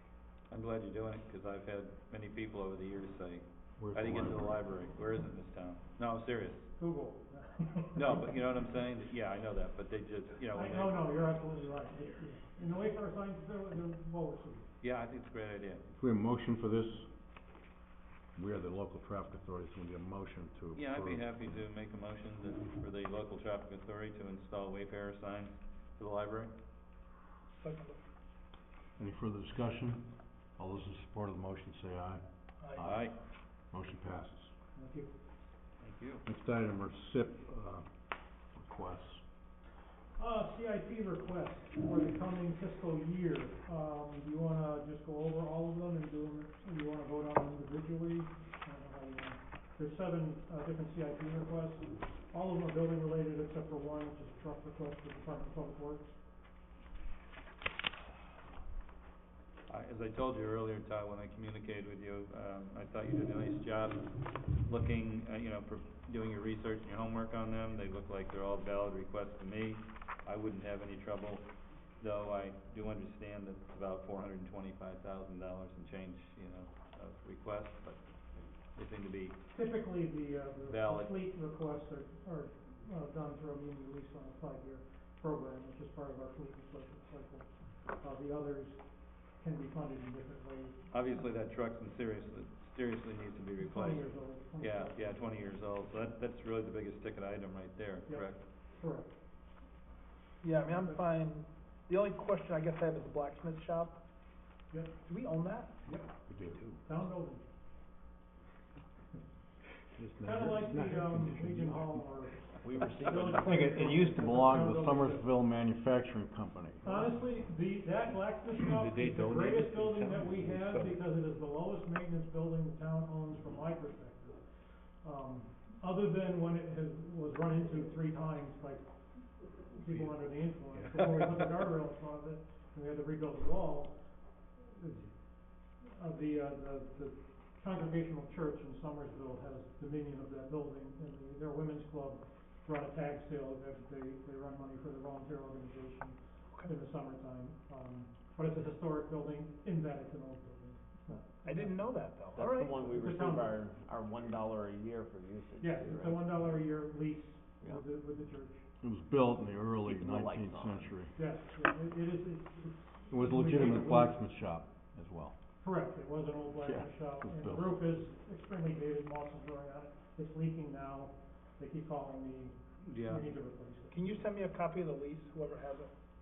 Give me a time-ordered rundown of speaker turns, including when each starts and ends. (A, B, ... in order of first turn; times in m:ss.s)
0:00.5-0:06.8 A
0:03.8-0:04.6 B
0:06.8-0:08.2 C
0:07.9-0:11.1 A
0:10.5-0:14.7 C
0:14.8-0:15.8 A
0:16.0-0:17.1 B
0:18.3-0:21.4 B
0:20.7-0:26.5 A
0:27.6-0:28.0 D
0:29.0-0:34.5 B
0:32.6-0:33.0 D
0:32.8-0:33.2 A
0:34.7-0:35.1 C
0:35.8-0:36.2 A
0:36.2-0:39.2 B
0:40.2-0:56.2 C
0:59.7-1:11.4 A
1:12.0-1:19.4 A
1:19.5-1:31.2 C
1:20.6-1:21.2 A
1:30.9-1:38.4 A
1:33.6-1:35.4 C
1:38.1-1:39.1 C
1:40.4-1:44.0 D
1:40.6-1:41.0 C
1:45.0-1:45.7 D
1:45.9-1:46.8 B
1:46.8-1:47.4 C
1:50.0-1:52.0 B
1:50.2-1:55.3 C
1:52.6-1:54.6 E
1:53.4-1:57.1 B
1:56.8-2:32.1 C
1:58.8-2:00.8 B
2:31.4-2:32.8 D
2:32.3-2:36.6 E
2:32.9-2:33.6 C
2:35.6-2:38.6 C
2:38.8-2:41.1 B
2:39.8-2:40.9 E
2:41.2-2:44.2 C
2:43.1-2:45.3 B
2:45.6-2:54.2 C
2:46.6-2:47.8 B
2:52.8-2:53.3 A
2:53.9-2:55.9 D